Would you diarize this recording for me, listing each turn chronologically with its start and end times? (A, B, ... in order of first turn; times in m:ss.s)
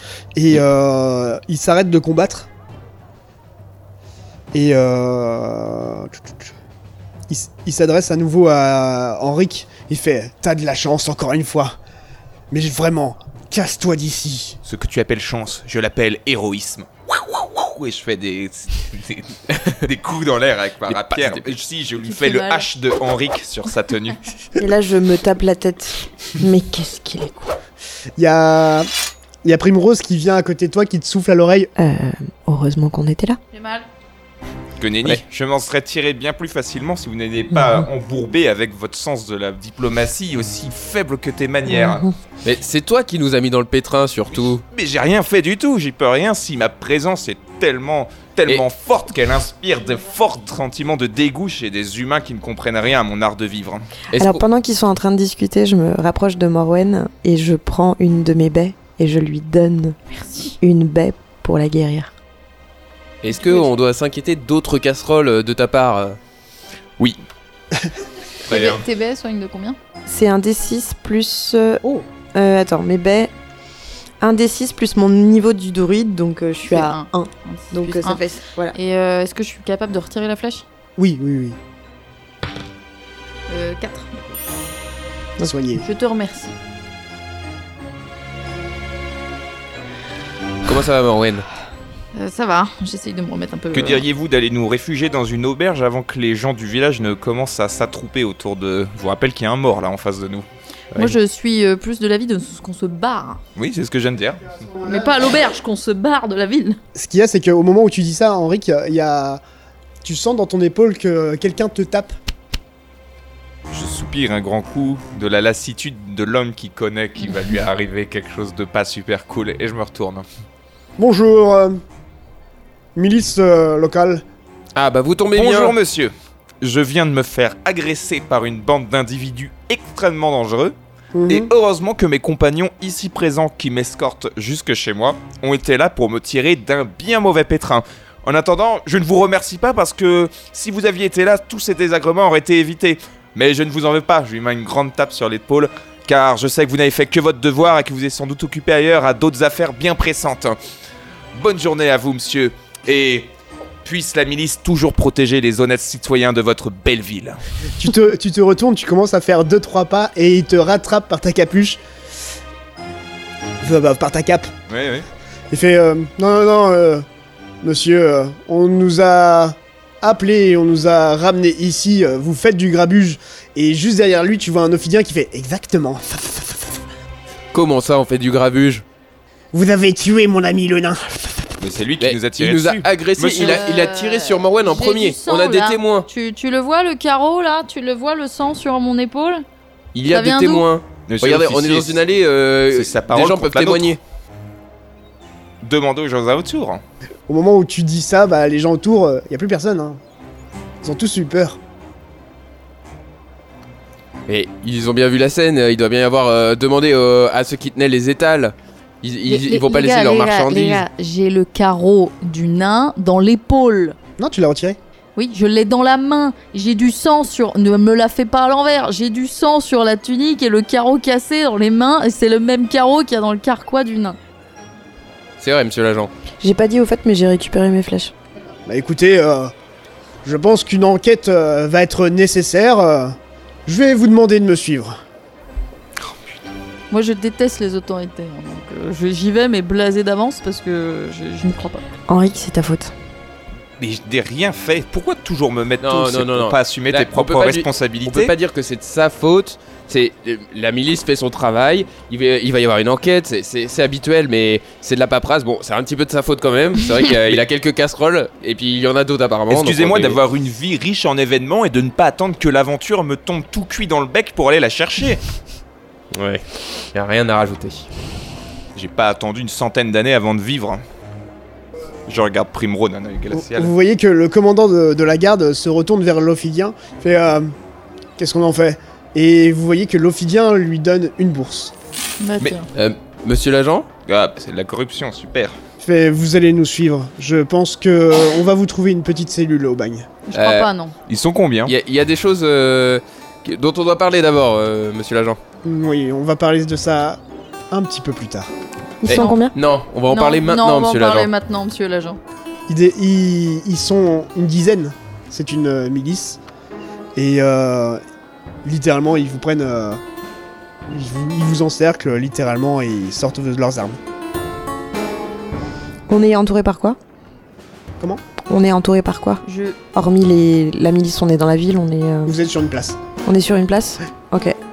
0:00.3-0:02.5 A
0:04.5-0:06.5 A
0:07.3-0:11.8 A
0:12.5-0:14.6 A
0:14.6-0:24.2 B
0:20.9-0:21.5 C
0:22.0-0:22.7 D
0:24.6-0:27.6 E
0:28.2-0:28.9 A
0:29.4-0:31.7 A
0:31.8-0:33.4 E
0:33.5-0:33.9 D
0:34.8-0:42.1 B
0:37.5-0:37.9 E
0:41.6-0:42.1 E
0:42.4-0:44.6 C
0:44.4-0:53.9 B
0:54.1-0:54.4 C
0:54.2-1:02.1 E
1:00.1-1:00.6 D
1:03.2-1:06.2 C
1:03.3-1:03.7 D
1:08.5-1:09.8 D
1:08.5-1:08.8 C
1:10.0-1:13.3 E
1:14.2-1:18.8 E
1:16.7-1:18.2 D
1:18.7-1:20.6 D
1:21.0-1:21.6 A
1:23.5-1:24.4 D
1:25.4-1:25.8 A
1:25.8-1:26.6 D
1:30.6-1:31.5 C
1:32.1-1:34.0 D
1:33.7-1:40.5 B
1:41.0-1:43.4 D
1:43.6-1:44.4 B
1:44.8-1:46.8 D
1:47.0-1:49.4 A
1:50.0-1:52.2 A
1:53.7-2:00.2 B
2:01.0-2:01.8 A
2:03.0-2:04.2 A
2:04.8-2:05.8 C
2:05.3-2:10.7 B
2:11.1-2:11.5 A
2:11.3-2:30.6 B
2:31.3-2:33.3 B
2:33.8-2:37.4 B
2:37.8-2:41.8 A
2:43.6-2:44.5 A
2:44.7-2:45.1 B
2:45.5-2:47.0 A
2:47.6-2:56.8 A
2:57.5-2:58.8 C
2:59.5-3:01.5 A
3:01.6-3:03.6 B
3:02.0-3:06.1 C
3:03.4-3:09.4 D
3:09.9-3:14.0 C
3:10.1-3:10.7 D
3:11.1-3:12.0 B
3:12.7-3:14.0 B
3:15.6-3:16.8 B
3:17.3-3:20.0 A
3:20.8-3:21.6 A
3:24.3-3:30.8 C
3:29.3-3:34.0 D
3:34.2-3:34.8 A
3:35.2-3:44.2 D
3:45.4-3:46.1 C
3:46.4-3:48.1 E
3:48.7-3:49.5 A
3:50.2-3:55.0 A
3:56.9-4:01.9 D
4:02.1-4:02.9 E
4:03.8-4:08.3 B
4:05.8-4:20.2 C
4:19.5-4:25.2 B
4:26.1-4:27.9 C
4:28.8-4:30.8 B
4:32.1-4:33.7 B
4:33.3-4:37.5 A
4:38.2-4:41.7 A
4:42.2-4:42.7 D
4:42.4-4:43.9 C
4:44.0-4:45.6 B
4:45.8-4:50.1 A
4:50.3-4:51.0 D
4:50.3-4:50.7 C
4:51.1-4:51.7 B
4:51.7-4:55.4 C
4:55.6-4:57.2 A
4:57.7-4:58.5 A
4:59.0-4:59.6 E
4:59.0-5:01.3 C
4:59.1-4:59.4 D
5:00.1-5:02.2 D
5:02.7-5:06.4 A
5:07.2-5:08.0 A
5:08.6-5:10.0 A
5:10.9-5:14.0 A
5:16.1-5:17.0 E
5:18.4-5:19.4 E
5:19.4-5:19.8 D
5:19.9-5:22.4 E
5:22.3-5:23.0 A
5:23.2-5:24.6 E